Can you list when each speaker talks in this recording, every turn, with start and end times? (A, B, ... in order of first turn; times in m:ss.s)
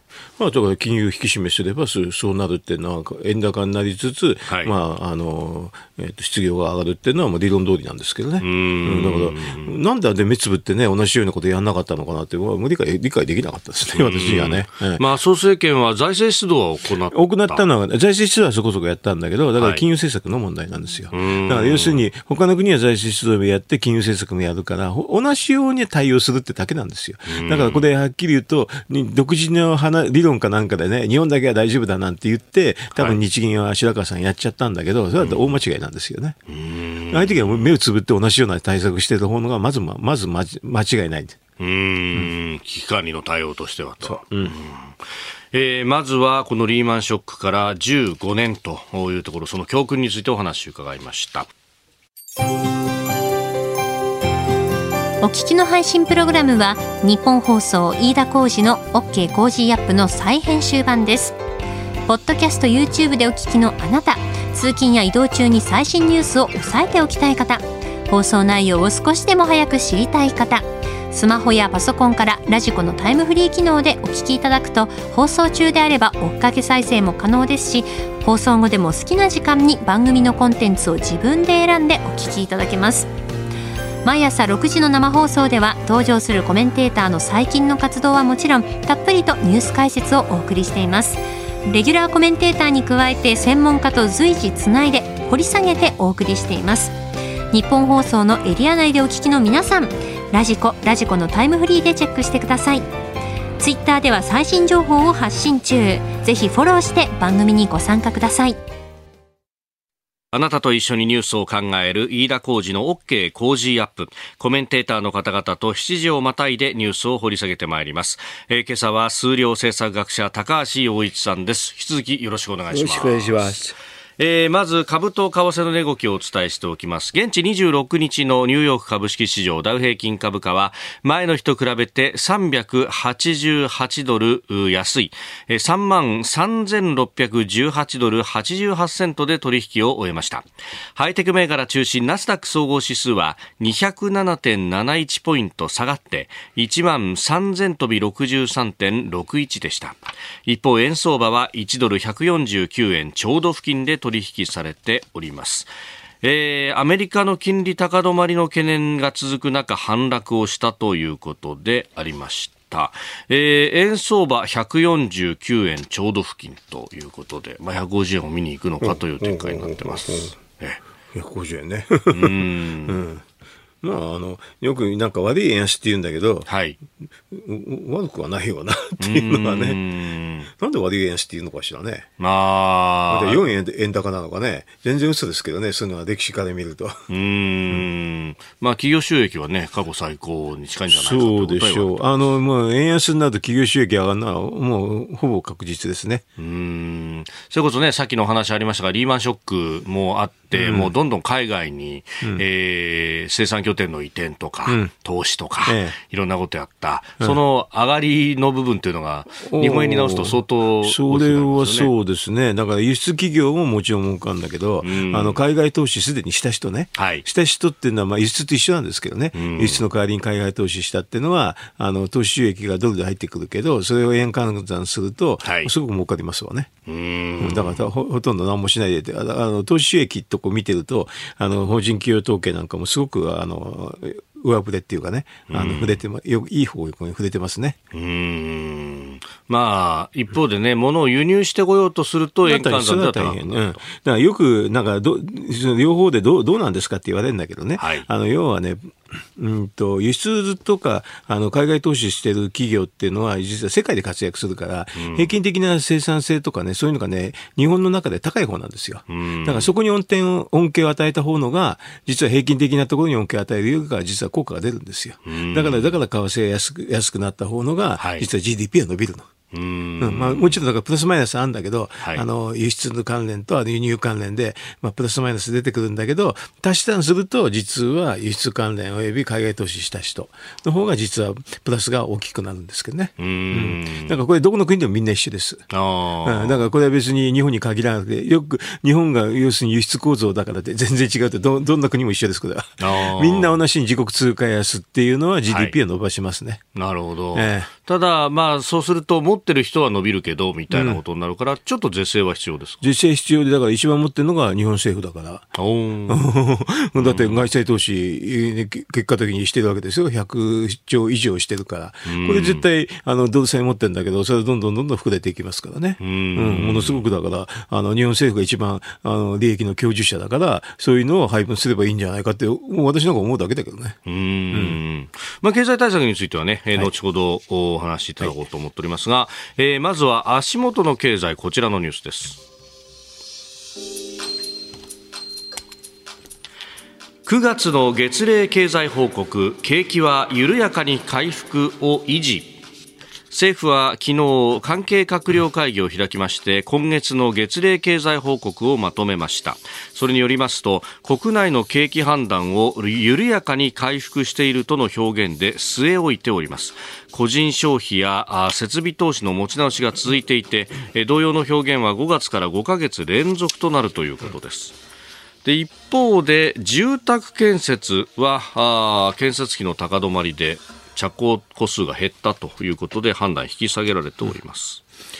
0:00.4-0:15.0 A
0:04.5-0:04.7 B
0:08.4-0:09.8 B
0:13.9-0:17.6 B
0:17.1-0:36.4 A
0:19.6-0:19.8 B
0:21.1-0:22.0 B
0:27.3-0:27.9 B
0:35.2-0:35.6 B
0:36.5-0:37.7 B
0:37.1-0:41.4 A
0:41.6-0:51.5 B
0:44.0-0:44.6 A
0:55.2-1:01.4 C
1:02.1-1:23.1 C
1:24.0-1:36.9 C
1:37.5-1:42.8 C
1:43.6-1:48.6 C
1:50.3-2:03.6 B
2:02.7-2:03.8 A
2:04.2-2:35.7 B
2:36.2-2:50.8 B
2:48.8-2:50.3 A
2:51.1-2:52.4 A
2:52.1-2:53.0 B
2:52.9-2:53.2 A
2:53.8-2:56.5 A
2:56.5-2:56.8 B
2:57.3-2:59.8 A
2:59.0-3:00.5 B
3:00.5-3:02.1 A
3:02.2-3:03.4 B
3:03.1-3:07.0 A
3:07.1-3:12.0 B
3:10.9-3:16.2 A
3:16.4-3:31.9 B
3:20.5-3:20.9 A
3:25.7-3:26.0 A
3:29.4-3:46.7 A
3:34.8-3:35.4 B
3:37.0-3:37.2 B
3:39.3-3:39.8 B
3:45.4-3:45.7 B
3:46.9-3:47.9 B
3:47.4-3:57.8 A
3:55.5-3:56.0 B
3:57.9-4:03.8 B
4:02.4-4:29.3 A
4:07.8-4:08.1 B
4:15.0-4:15.3 B
4:19.1-4:19.7 B
4:25.2-4:26.0 B
4:28.0-4:28.3 B
4:29.5-4:30.6 B
4:30.0-4:45.6 A
4:32.0-4:32.3 B
4:43.2-4:44.2 B
4:45.7-4:46.6 B
4:46.2-4:56.6 A
4:52.8-4:53.6 B
4:55.5-4:55.8 B
4:56.8-5:02.9 B
4:57.3-4:57.7 A
5:00.7-5:01.0 A
5:02.8-5:05.6 A
5:05.6-5:06.2 B
5:06.1-5:24.0 A
5:07.0-5:07.5 B
5:12.0-5:12.6 B
5:16.0-5:17.0 B
5:24.1-5:32.4 B
5:24.5-5:24.8 A
5:37.2-5:42.6 B
5:43.3-6:04.8 B
6:05.4-6:14.8 B